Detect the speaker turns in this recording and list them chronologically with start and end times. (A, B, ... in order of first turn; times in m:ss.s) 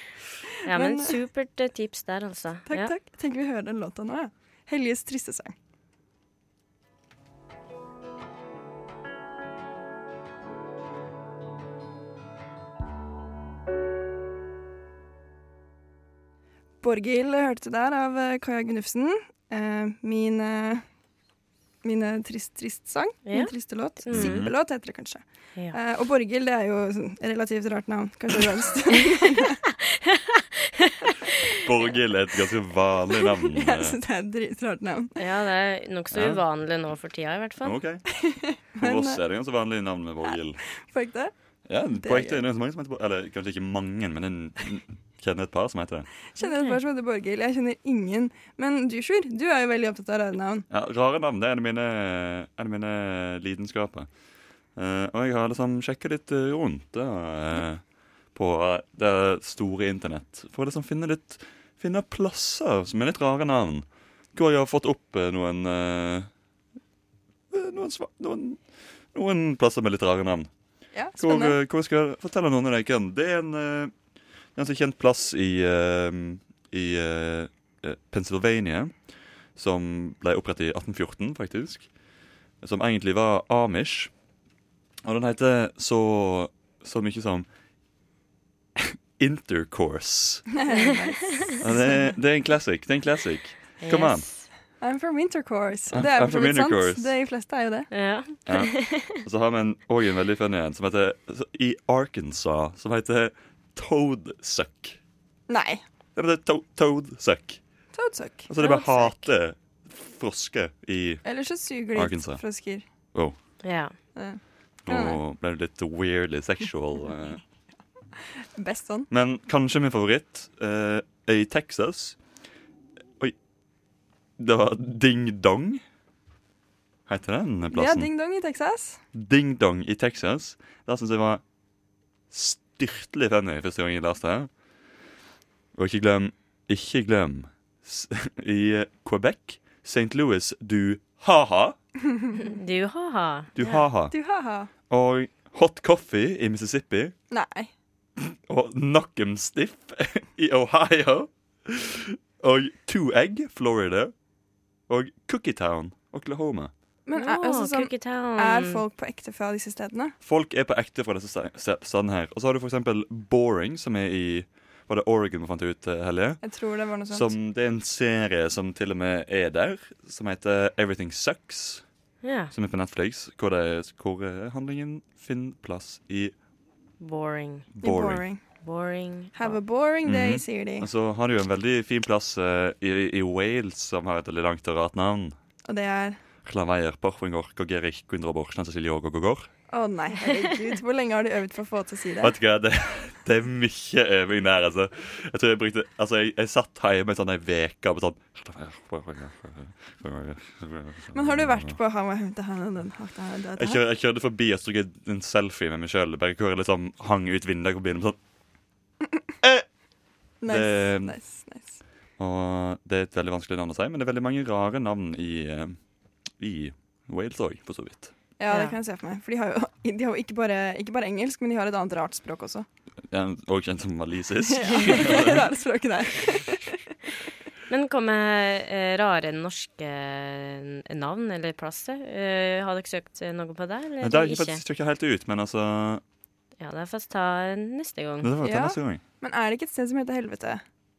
0:00.6-0:02.9 A
0:00.7-0:01.2 B
0:02.7-0:05.6 B
0:16.8-0:20.8 B
0:21.8-0:29.6 B
0:23.3-0:24.4 A
0:24.1-0:24.5 C
0:29.4-0:31.5 A
0:31.5-0:34.0 C
0:33.2-0:35.2 B
0:35.2-0:37.8 A
0:36.1-0:36.4 C
0:37.6-0:38.1 C
0:38.2-0:39.2 B
0:38.8-0:40.6 C
0:40.2-0:41.3 B
0:41.7-0:46.1 C
0:41.9-0:42.4 B
0:46.4-0:50.7 B
0:46.4-0:46.7 A
0:50.7-0:54.1 C
0:54.8-0:57.8 C
0:58.3-1:06.3 C
1:07.5-1:08.6 C
1:09.1-1:10.5 C
1:10.9-1:11.6 B
1:11.2-1:13.9 C
1:14.6-1:18.9 C
1:19.6-1:21.9 C
1:22.6-1:24.1 C
1:25.0-1:27.5 C
1:28.8-1:30.5 C
1:30.5-1:31.9 B
1:30.7-1:31.6 A
1:31.6-1:34.3 C
1:33.8-1:34.5 A
1:34.8-1:37.9 B
1:35.9-1:37.1 C
1:37.9-1:39.2 A
1:38.5-1:45.0 C
1:45.5-1:45.8 B
1:46.2-1:47.6 C
1:47.9-1:48.5 B
1:48.5-1:51.2 C
1:48.6-1:49.3 A
1:51.2-1:52.8 B
1:52.0-1:52.4 C
1:53.6-1:53.9 A
1:54.2-1:55.2 B
1:54.9-1:57.4 C
1:58.6-1:59.1 B
1:59.1-2:02.2 C
2:04.4-2:05.8 C
2:07.1-2:08.1 C
2:07.7-2:09.0 B
2:09.1-2:11.4 C
2:12.3-2:14.5 C
2:15.8-2:21.8 C
2:22.4-2:23.8 A
2:23.6-2:24.1 C
2:24.1-2:24.7 B
2:24.9-2:27.1 C
2:27.3-2:27.7 B
2:28.2-2:34.1 C
2:34.9-2:36.7 C
2:37.1-2:40.1 B
2:37.2-2:38.8 A
2:40.2-2:46.4 C
2:46.4-2:47.3 B
2:47.1-2:51.8 C
2:52.2-2:52.5 A
2:52.5-2:56.3 C
2:57.0-2:57.7 A
2:57.8-2:58.2 C
2:57.8-2:58.4 B
2:58.6-2:59.6 A
2:59.4-3:00.9 B
3:00.0-3:05.4 C
3:05.7-3:06.2 B
3:06.4-3:09.5 C
3:09.7-3:12.4 B
3:12.2-3:21.8 C
3:21.1-3:23.8 B
3:23.6-3:28.2 C
3:30.4-3:31.8 B
3:30.5-3:31.2 C
3:32.2-3:35.8 C
3:36.4-3:38.1 C
3:38.4-3:42.7 B
3:38.5-3:38.8 A
3:43.1-3:45.5 C
3:44.4-3:46.9 B
3:47.7-3:54.6 A
3:54.0-3:56.0 C
3:56.6-3:58.3 A
3:58.2-3:59.0 C
3:58.4-4:00.6 B